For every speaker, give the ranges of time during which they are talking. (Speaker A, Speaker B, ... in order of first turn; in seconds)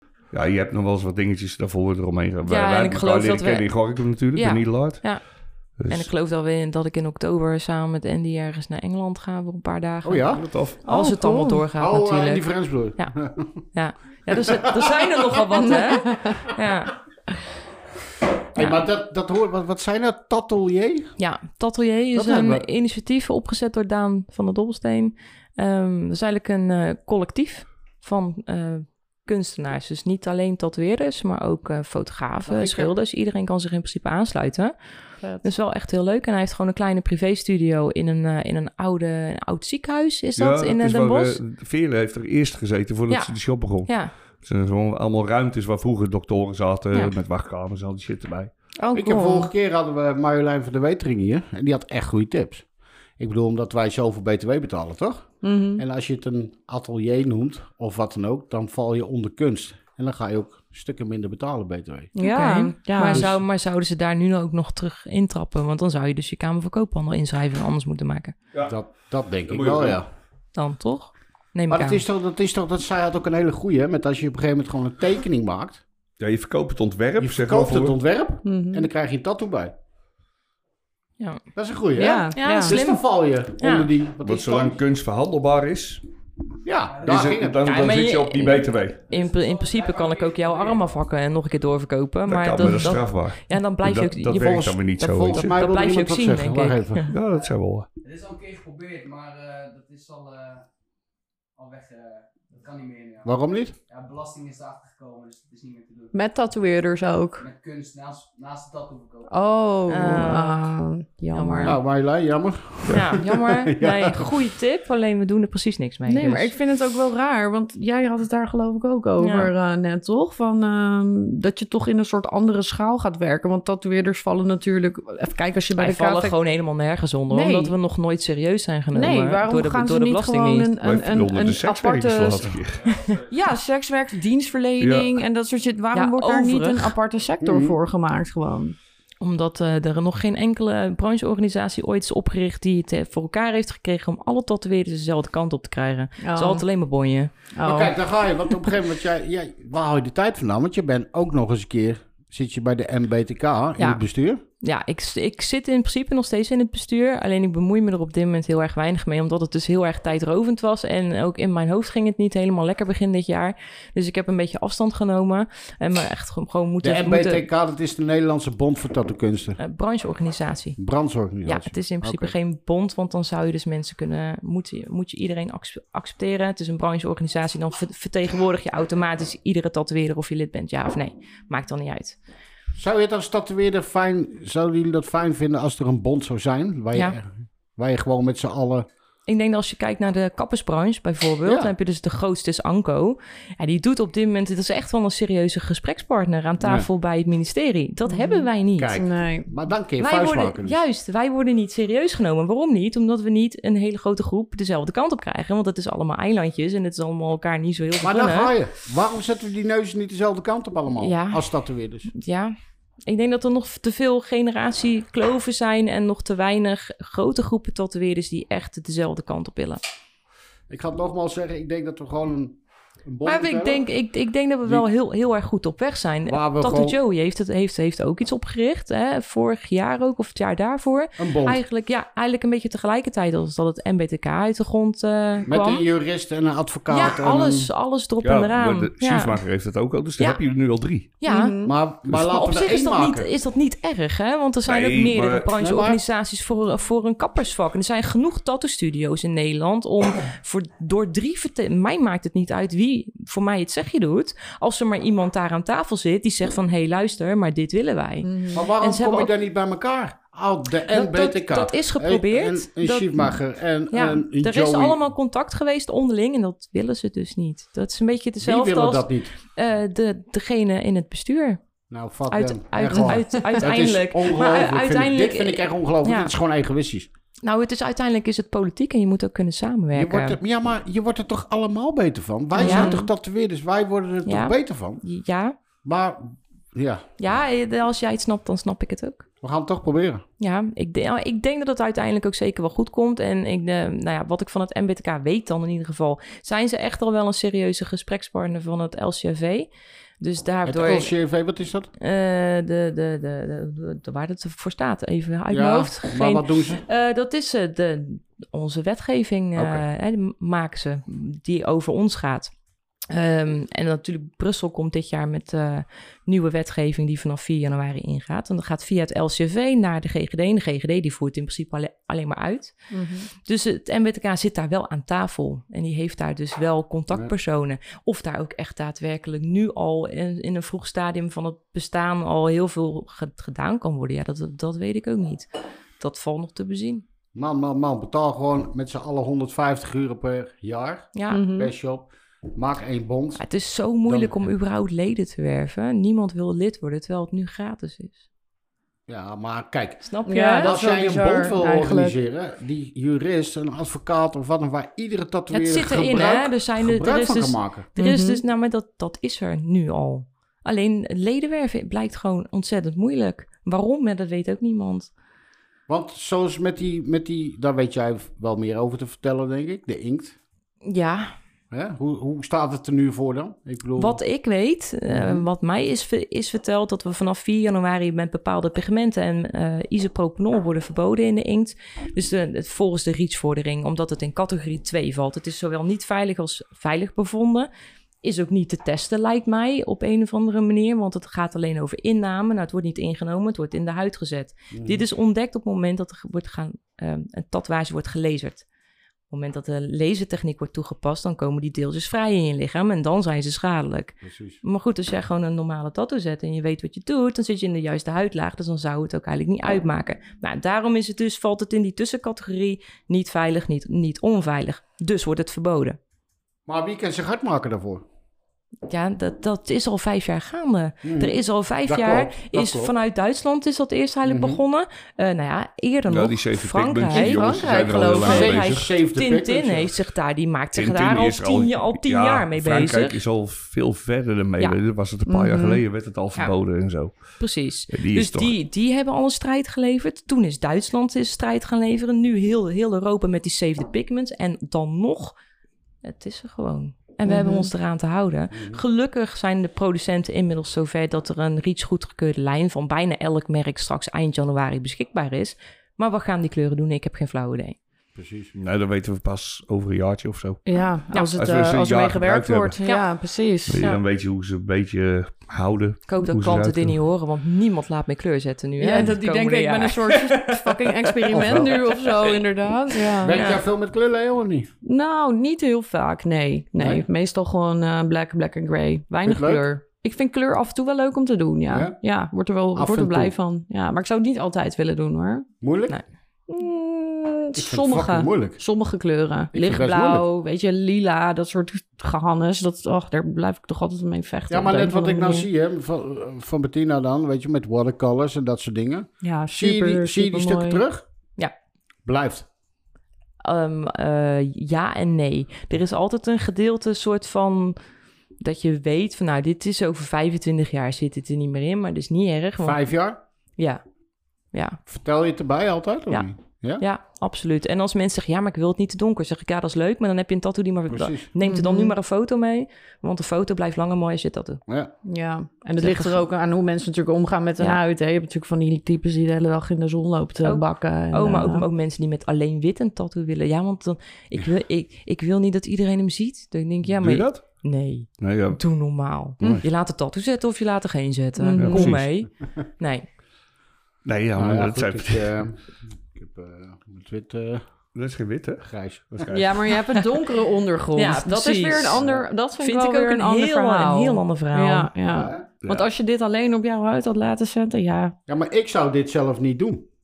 Speaker A: 0.3-5.2, 5.8-6.1, 10.3-10.8, 40.4-48.5, 69.5-70.0, 76.2-77.9, 84.2-86.0, 87.0-89.0, 92.3-95.5, 97.1-97.9, 130.8-133.0, 134.8-135.2, 238.2-241.1, 244.7-245.5, 426.1-428.8, 430.7-437.4, 437.9-438.5, 458.5-460.6, 461.3-462.8, 463.7-467.0, 536.9-537.4, 538.2-538.6, 541.6-542.0, 544.0-545.3, 547.9-549.5
Speaker B: 2.4-13.1, 13.7-16.9, 18.6-18.8, 21.2-34.7, 35.4-41.4, 43.1-44.1, 48.8-49.5, 62.2-68.3, 70.5-72.0, 82.3-83.9, 87.6-97.1, 109.9-110.7, 111.3-111.8, 112.9-116.5, 119.2-119.5, 125.8-130.7, 135.9-136.9, 139.2-147.3, 154.6-167.4, 169.6-170.8, 171.4-182.2, 189.3-199.0, 200.0-208.5, 211.0-211.5, 212.1-212.5, 213.1-219.8, 223.2-235.8, 236.9-239.4, 241.2-241.5, 242.1-259.3, 260.9-263.3, 263.9-271.6, 272.3-276.3, 277.4-280.4, 282.6-283.0, 284.2-285.5, 287.2-289.2, 290.4-299.7, 300.2-301.1, 302.0-312.5, 313.1-322.8, 323.3-335.5, 336.0-337.0, 341.1-341.4, 343.4-348.2, 350.1-350.7, 355.5-365.1, 370.8-371.3, 374.0-387.7, 388.2-398.6, 399.3-416.0, 418.9-433.2, 437.4-445.4, 446.0-457.8, 466.1-471.9, 473.3-473.6, 503.4-507.8, 508.4-512.8, 514.5-514.8, 516.8-524.6, 525.8-526.2, 530.4-543.0, 551.0-552.0, 552.6-554.9
Speaker C: 10.0-10.4, 11.8-13.6, 14.3-14.9, 18.5-21.1, 22.1-22.6, 32.4-32.9, 48.9-52.6, 53.2-62.1, 63.1-63.4, 68.6-70.0, 71.7-75.8, 77.2-79.7, 81.5-84.8, 86.6-88.0, 94.4-97.1, 103.2-103.7, 111.6-114.3, 137.4-137.8, 147.6-154.4, 166.8-169.6, 170.8-172.3, 182.8-188.9, 191.4-191.7, 196.6-196.9, 198.8-200.8, 208.0-212.1, 220.7-223.8, 226.2-227.0, 231.2-231.6, 235.4-237.7, 241.6-243.3, 245.6-246.0, 258.5-265.0, 268.4-269.3, 271.9-277.1, 279.9-285.0, 285.8-287.0, 289.4-290.2, 300.6-301.9, 305.5-306.8, 337.3-343.4, 344.0-344.3, 349.1-357.9, 365.9-370.4, 371.7-374.2, 375.1-375.5, 394.7-395.0, 404.2-404.6, 416.7-418.0, 421.0-422.9, 424.2-424.6, 428.2-429.9, 448.5-448.8, 458.1-458.5, 471.3-471.7, 473.2-474.7, 476.8-477.0, 479.2-479.6, 481.7-481.9, 482.7-483.3, 485.6-486.0, 487.6-488.6, 489.5-490.2, 494.5-501.0, 502.1-502.4, 512.6-513.2, 514.9-516.8, 520.9-521.3, 544.4-547.6, 548.6-549.3, 551.9-552.2, 555.1-555.8, 558.3-559.9
Speaker D: 10.8-11.6, 15.7-16.3, 55.4-55.8, 62.1-63.3, 78.4-78.9, 82.0-82.7, 106.1-107.5, 109.3-111.8, 116.1-126.3, 127.3-127.7, 128.9-138.8, 146.2-146.6, 147.5-147.9, 198.1-198.4, 199.0-199.5, 241.2-241.7, 258.2-258.6, 282.6-283.1, 322.9-323.3, 341.3-341.7, 350.3-352.2, 358.0-358.4, 427.1-428.5, 435.3-435.8, 447.3-447.7, 460.6-463.8, 468.8-473.4, 474.8-485.5, 486.5-495.5, 499.2-500.8, 521.4-521.9, 525.0-531.6, 541.4-541.9, 549.3-558.1
Speaker E: 86.9-87.3, 89.1-90.9, 98.0-100.7, 101.5-103.3, 103.9-106.1, 107.4-109.3